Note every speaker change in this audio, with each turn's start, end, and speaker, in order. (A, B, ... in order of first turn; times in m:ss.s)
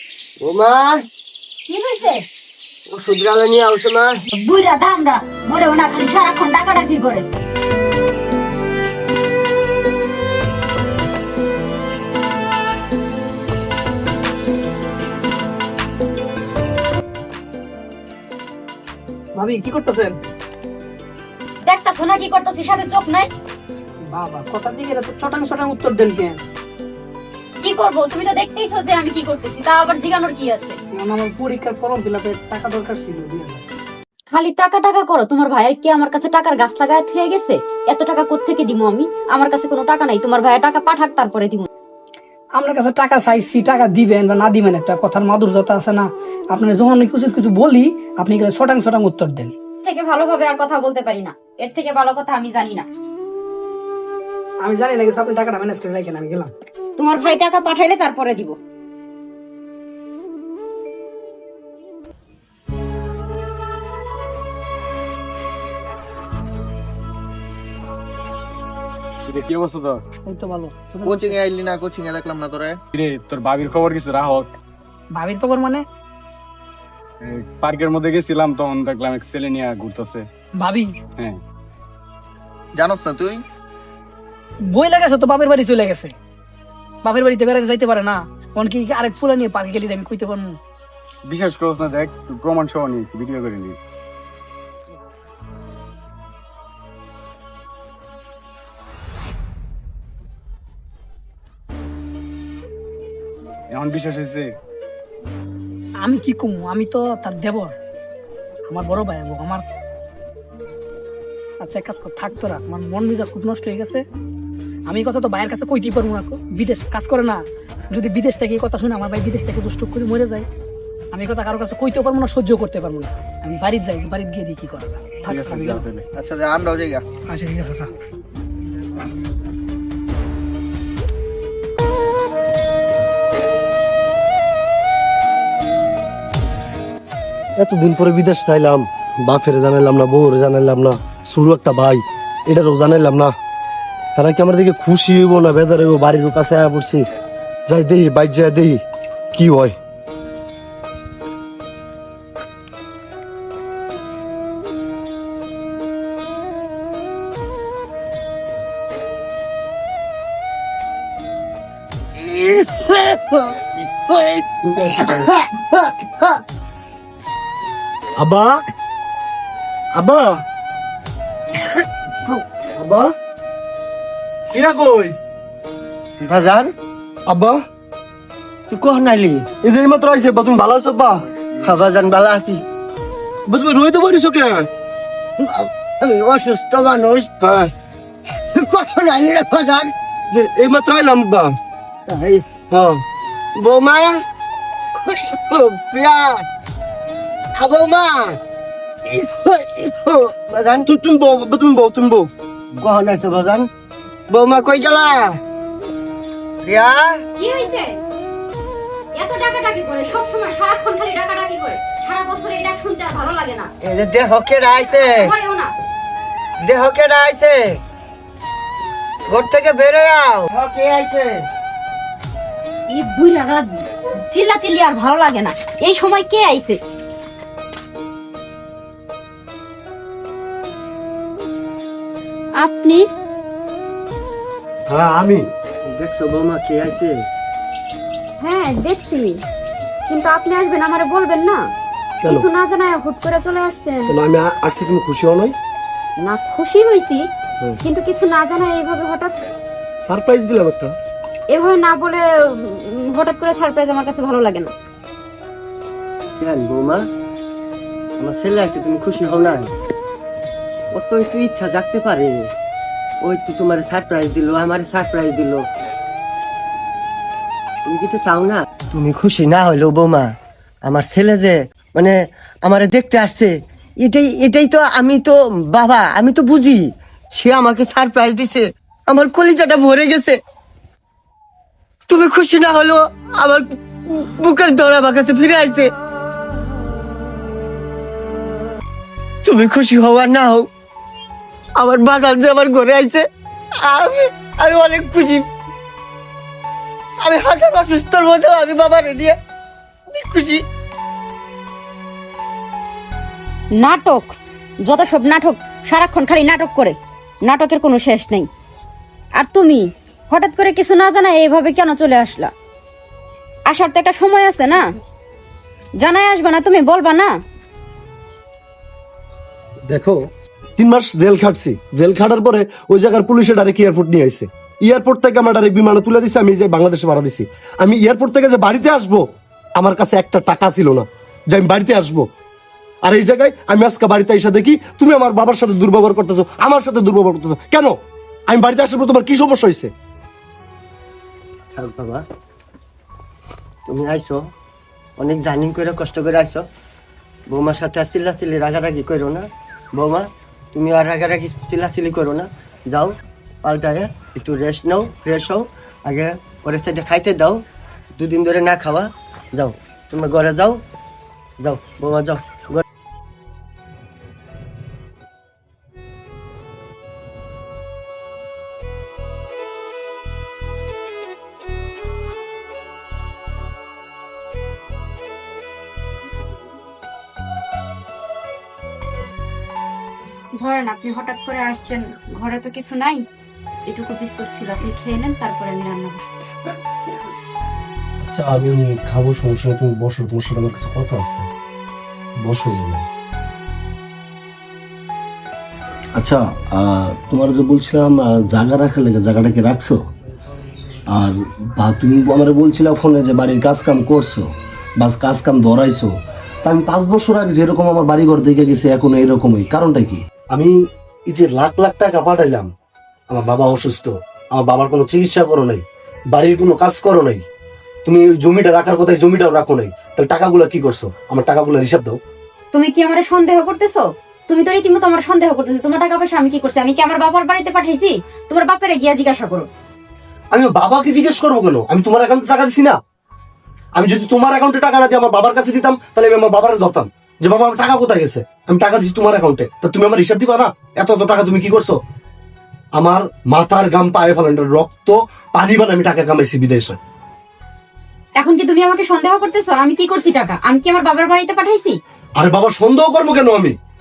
0:00.4-0:01.0 A
0:01.7-0:02.2 B
0:02.9-0:04.2 A
0:04.3-0:07.2 B
0:19.3-0:20.2 C
0:21.6-0:23.3 B
0:24.1-0:26.4 C
0:27.6-0:30.8 B
0:30.9-0:33.6 C
0:34.3-0:41.7 B
0:42.6-0:49.5 C
0:49.8-0:52.8 B
0:54.6-0:56.5 C
0:57.0-0:58.6 B
1:09.3-1:10.0 D
1:10.2-1:11.4 C
1:11.0-1:12.8 E
1:12.9-1:14.5 D
1:15.1-1:15.8 C
1:17.2-1:20.3 D
1:20.6-1:20.9 C
1:22.7-1:23.4 E
1:24.7-1:26.1 C
1:27.0-1:30.6 C
1:31.2-1:33.8 D
1:43.7-1:44.5 D
1:46.0-1:47.7 C
1:48.7-1:49.6 C
1:51.6-1:54.0 C
1:54.9-2:00.4 C
2:01.1-2:05.8 C
2:05.2-2:06.0 D
2:06.1-2:07.0 E
2:07.3-2:07.9 C
2:17.6-2:23.3 F
2:24.2-2:27.0 F
2:27.6-2:28.8 F
2:29.3-2:29.8 F
2:42.2-2:46.3 A
2:48.2-2:48.6 F
2:49.9-2:50.4 F
2:52.8-2:53.1 F
2:54.5-2:55.2 F
2:56.2-2:56.7 A
2:57.2-2:57.6 F
2:58.7-2:59.5 A
2:59.6-3:01.2 F
3:01.6-3:02.6 A
3:03.5-3:04.7 F
3:05.4-3:07.3 A
3:07.4-3:07.7 F
3:08.5-3:09.9 A
3:10.3-3:11.6 F
3:12.1-3:12.4 A
3:12.7-3:13.0 F
3:13.6-3:14.2 A
3:14.9-3:16.4 A
3:17.6-3:18.4 A
3:19.0-3:20.9 A
3:20.8-3:22.3 F
3:22.8-3:23.7 A
3:24.3-3:25.4 A
3:26.6-3:27.2 A
3:27.4-3:28.0 B
3:29.2-3:33.7 B
3:33.8-3:35.3 A
3:35.0-3:35.7 B
3:36.6-3:37.8 A
3:39.3-3:41.4 A
3:42.9-3:46.8 B
3:52.6-3:53.0 B
3:54.9-3:55.5 F
3:55.9-3:57.2 A
3:58.4-3:59.4 B
4:00.1-4:01.6 B
4:02.2-4:04.1 B
4:04.1-4:05.5 F
4:06.2-4:07.2 B
4:07.8-4:09.4 B
4:10.0-4:10.9 F
4:11.5-4:14.7 B
4:16.4-4:17.0 A
4:18.2-4:19.7 A
4:20.9-4:22.5 A
4:23.2-4:25.6 A
4:27.8-4:30.3 A
4:30.8-4:40.4 A
4:42.1-4:45.9 A
4:49.4-4:50.7 A
4:51.8-4:53.2 A
4:53.8-4:55.5 A
4:57.2-4:59.4 A
5:00.1-5:00.6 A
5:03.8-5:08.5 B
5:09.4-5:12.5 B
5:13.7-5:14.8 B
5:16.0-5:17.3 B
5:19.9-5:20.2 F
5:20.8-5:32.3 F
5:33.0-5:37.9 F
5:38.5-5:39.9 F
5:41.8-5:42.2 A
5:43.8-5:44.5 A
5:45.2-5:46.6 A
5:47.5-5:57.6 A
5:58.2-6:00.8 A
6:01.6-6:02.8 A
6:20.6-6:23.2 B
6:23.8-6:26.4 B
6:28.2-6:31.5 F
6:32.4-6:33.0 F
6:36.2-6:40.0 F
6:41.1-6:46.1 F
6:46.6-6:50.7 F
6:51.3-6:52.7 F
6:53.3-6:57.4 F
6:58.0-7:02.2 F
7:02.7-7:09.7 B
7:10.5-7:13.0 F
7:13.9-7:22.0 F
7:22.9-7:27.0 F
7:28.4-7:32.0 B
7:32.4-7:33.8 F